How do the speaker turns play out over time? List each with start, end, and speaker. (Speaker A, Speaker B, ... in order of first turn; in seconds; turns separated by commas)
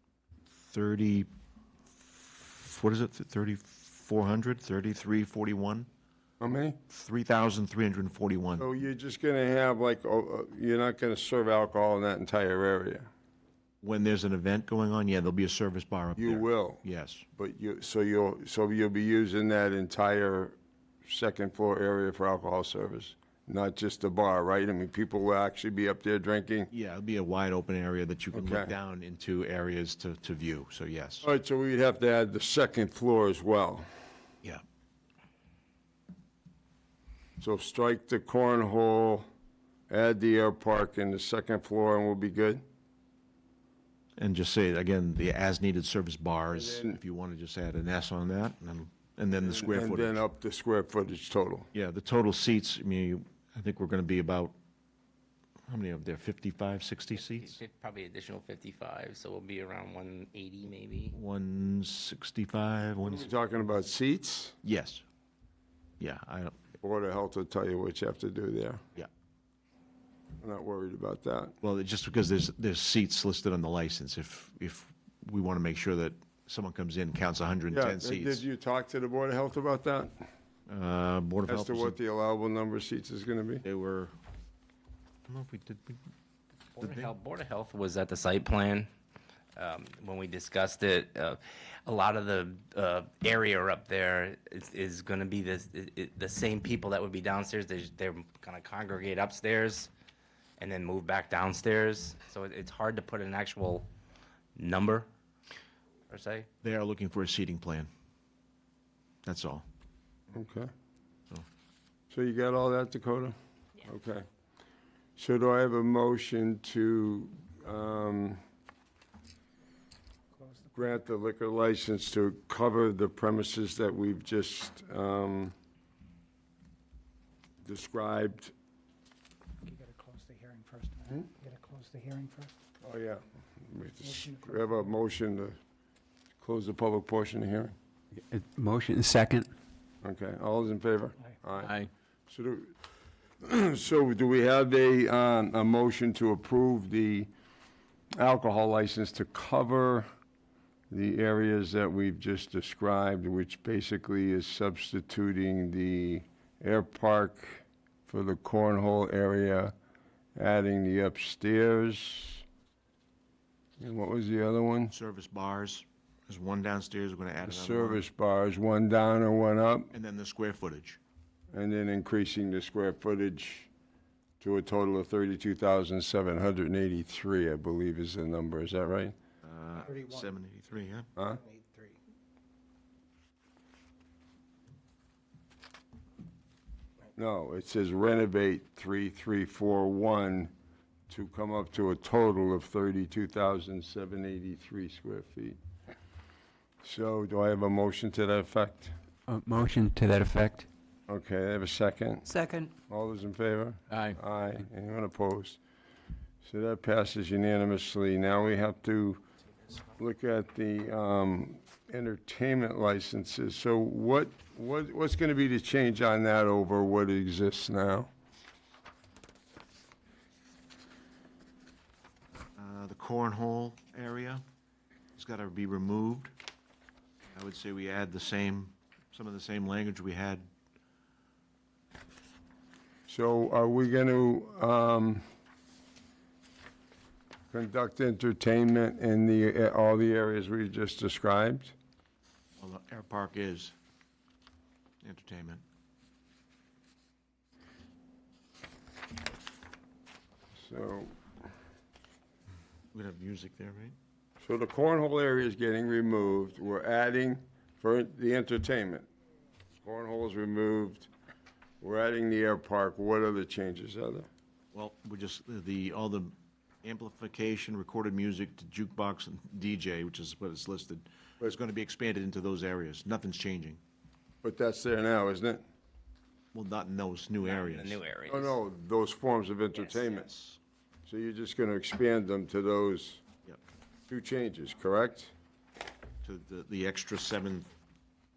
Speaker A: 0.6-1.3, Speaker A: 1.9-5.9, Speaker B: 6.4-6.8, Speaker A: 6.9-8.6, Speaker B: 8.6-13.1, Speaker A: 13.8-17.2, Speaker B: 16.1-16.8, Speaker B: 17.4-26.7, Speaker A: 26.7-31.2, Speaker B: 28.3-28.7, Speaker B: 31.2-33.9, Speaker B: 37.4-39.3, Speaker B: 39.9-42.6, Speaker A: 44.2-50.2, Speaker B: 46.5-47.0, Speaker B: 49.4-51.7, Speaker A: 51.7-54.5, Speaker A: 55.7-57.6, Speaker C: 57.3-61.1, Speaker A: 61.1-63.3, Speaker B: 63.0-64.5, Speaker A: 64.6-65.0, Speaker A: 66.0-66.6, Speaker B: 66.8-68.8, Speaker B: 70.4-71.5, Speaker A: 71.6-78.4, Speaker B: 77.7-80.3, Speaker A: 80.7-82.0, Speaker B: 81.5-83.6, Speaker A: 83.6-84.1, Speaker A: 85.3-86.0, Speaker C: 86.8-88.9, Speaker A: 86.8-87.1, Speaker C: 89.5-99.9, Speaker C: 100.6-103.9, Speaker C: 104.5-105.1, Speaker C: 106.1-106.5, Speaker A: 106.6-107.9, Speaker A: 109.2-109.6, Speaker B: 110.3-110.7, Speaker B: 112.1-114.2, Speaker B: 115.2-118.4, Speaker D: 120.4-120.7, Speaker B: 120.7-125.5, Speaker B: 127.6-128.5, Speaker D: 129.7-132.5, Speaker B: 132.8-135.6, Speaker D: 134.0-134.6, Speaker B: 136.4-137.7, Speaker E: 138.1-139.5, Speaker B: 140.0-141.8, Speaker E: 141.6-141.9, Speaker B: 142.3-142.7, Speaker B: 143.4-147.3, Speaker B: 148.1-150.1, Speaker B: 150.9-159.7, Speaker B: 160.3-162.4, Speaker B: 163.8-164.9, Speaker A: 164.9-168.0, Speaker B: 167.4-169.9, Speaker A: 169.9-171.0, Speaker B: 171.5-173.7, Speaker B: 174.4-179.1, Speaker A: 179.4-181.1, Speaker D: 179.9-180.2, Speaker B: 181.2-181.4, Speaker D: 181.4-181.9, Speaker B: 187.1-190.5, Speaker B: 191.1-195.6, Speaker B: 196.8-198.9, Speaker E: 199.3-200.7, Speaker B: 201.1-202.3, Speaker E: 202.3-202.7, Speaker B: 202.9-205.6, Speaker E: 203.9-204.2, Speaker B: 206.4-209.2, Speaker B: 209.9-218.1, Speaker A: 222.6-224.4, Speaker A: 225.2-226.3, Speaker A: 227.3-230.5, Speaker B: 233.1-235.2, Speaker B: 237.5-241.7, Speaker A: 242.6-243.7, Speaker A: 245.0-245.6, Speaker B: 250.6-251.2, Speaker A: 252.9-253.9, Speaker B: 254.4-259.1, Speaker B: 259.8-261.1, Speaker B: 261.8-264.3, Speaker A: 264.7-273.8, Speaker B: 274.4-275.6, Speaker A: 276.5-278.0, Speaker C: 277.4-278.6, Speaker B: 278.3-280.3, Speaker A: 279.8-280.6, Speaker B: 281.0-283.2, Speaker B: 284.1-285.3, Speaker A: 286.2-287.7